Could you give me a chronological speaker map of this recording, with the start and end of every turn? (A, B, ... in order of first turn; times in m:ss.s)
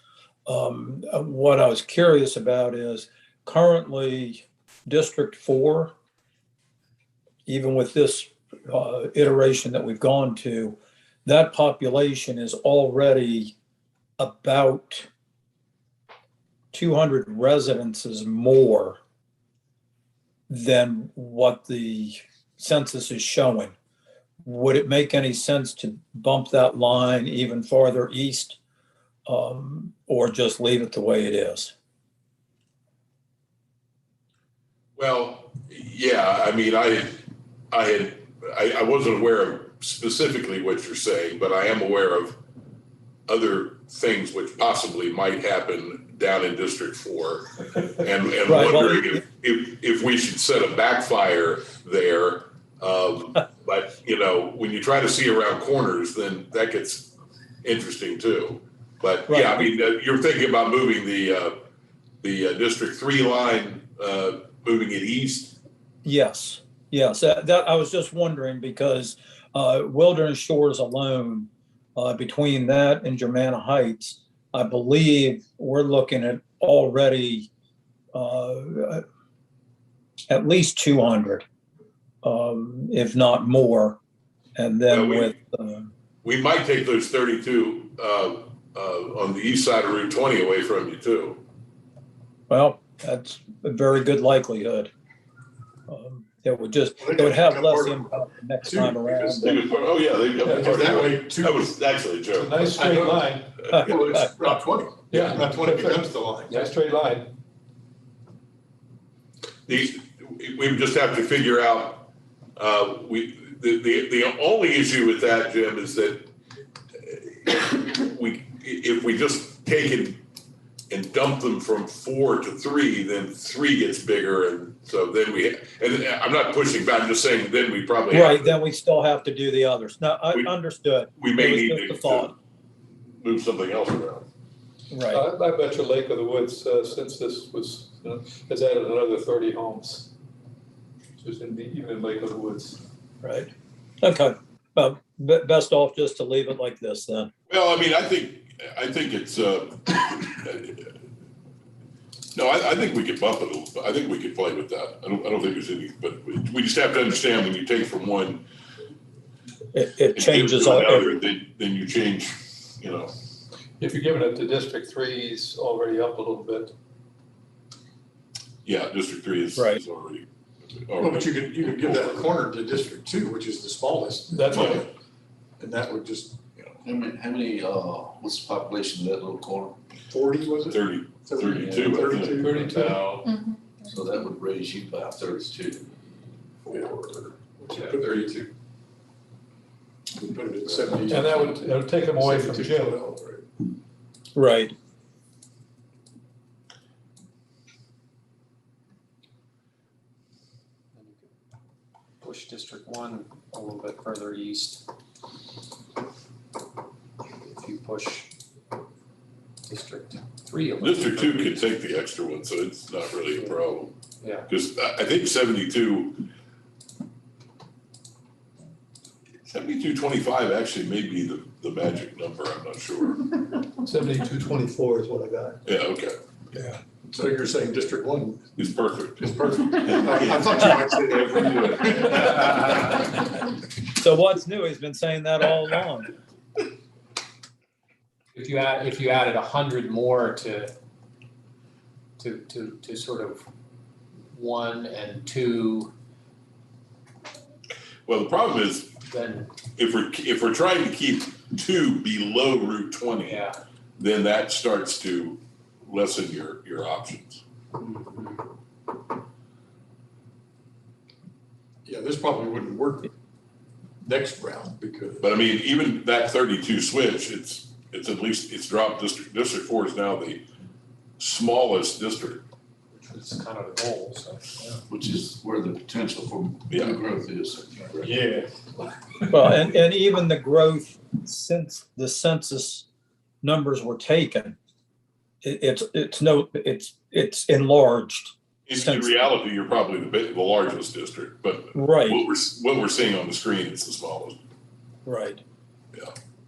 0:00.5-0:05.9 A
0:07.5-0:13.5 A
0:14.2-0:15.1 A
0:16.7-0:19.0 A
0:20.5-0:23.7 A
0:24.4-0:28.6 A
0:29.3-0:31.7 A
0:35.0-0:42.4 B
0:43.3-1:01.6 B
0:48.5-0:49.2 A
0:59.3-0:59.7 A
1:02.2-1:05.6 B
1:06.0-1:17.5 A
1:18.1-1:19.0 A
1:20.3-1:21.4 A
1:22.2-1:24.0 A
1:24.6-1:25.9 A
1:24.9-1:25.3 B
1:26.2-1:31.4 B
1:32.5-1:34.9 A
1:35.9-1:39.6 A
1:37.0-1:38.1 C
1:38.6-1:39.6 C
1:39.4-1:42.7 B
1:40.4-1:41.6 C
1:42.3-1:43.7 D
1:42.7-1:46.6 C
1:43.7-1:44.5 A
1:45.1-1:47.3 D
1:49.7-1:56.3 B
1:57.0-2:00.2 B
2:00.9-2:08.6 B
2:08.1-2:12.3 A
2:11.2-2:12.3 B
2:13.0-2:14.3 B
2:14.9-2:15.2 A
2:15.1-2:20.1 D
2:21.2-2:22.8 D
2:23.2-2:23.5 A
2:24.0-2:27.3 A
2:27.5-2:30.9 B
2:32.3-2:38.4 B
2:39.7-2:41.2 A
2:40.1-2:43.1 B
2:43.8-2:46.7 D
2:48.6-2:52.3 B
2:49.6-2:49.8 A
2:51.0-2:54.9 C
2:54.3-2:54.8 D
2:54.5-2:54.8 B
2:55.6-2:56.8 C
2:56.8-2:59.8 E
3:00.1-3:02.6 C
3:00.7-3:02.5 B
3:02.2-3:03.2 D
3:02.4-3:03.0 E
3:03.8-3:06.1 E
3:06.6-3:07.3 E
3:07.6-3:08.5 C
3:10.1-3:13.4 C
3:11.1-3:13.0 D
3:14.3-3:14.7 A
3:20.9-3:21.3 F
3:22.2-3:24.8 F
3:27.3-3:28.3 F
3:29.7-3:31.6 F
3:30.8-3:33.9 B
3:34.2-3:34.5 F
3:34.5-3:36.3 B
3:39.5-3:43.4 B
3:43.8-3:45.6 D
3:45.6-3:46.2 B
3:47.0-3:48.4 C
3:48.6-3:50.7 B
3:49.2-3:52.9 C
3:53.9-3:56.1 A
3:58.3-4:00.7 F
4:02.2-4:03.4 F
4:04.3-4:05.9 F
4:08.0-4:08.9 B
4:09.1-4:09.5 F
4:09.8-4:13.4 B
4:13.2-4:13.6 F
4:14.0-4:17.4 B
4:17.7-4:18.4 F
4:21.8-4:23.1 C
4:24.0-4:25.3 C
4:25.2-4:30.4 B
4:31.2-4:32.4 B
4:32.9-4:34.8 F
4:34.9-4:38.2 E
4:36.7-4:37.0 B
4:38.0-4:38.7 C
4:39.3-4:42.9 A
4:43.4-4:44.6 A
4:45.4-4:49.1 A
4:48.7-4:54.4 B
4:51.7-4:52.2 A
4:55.0-4:55.4 A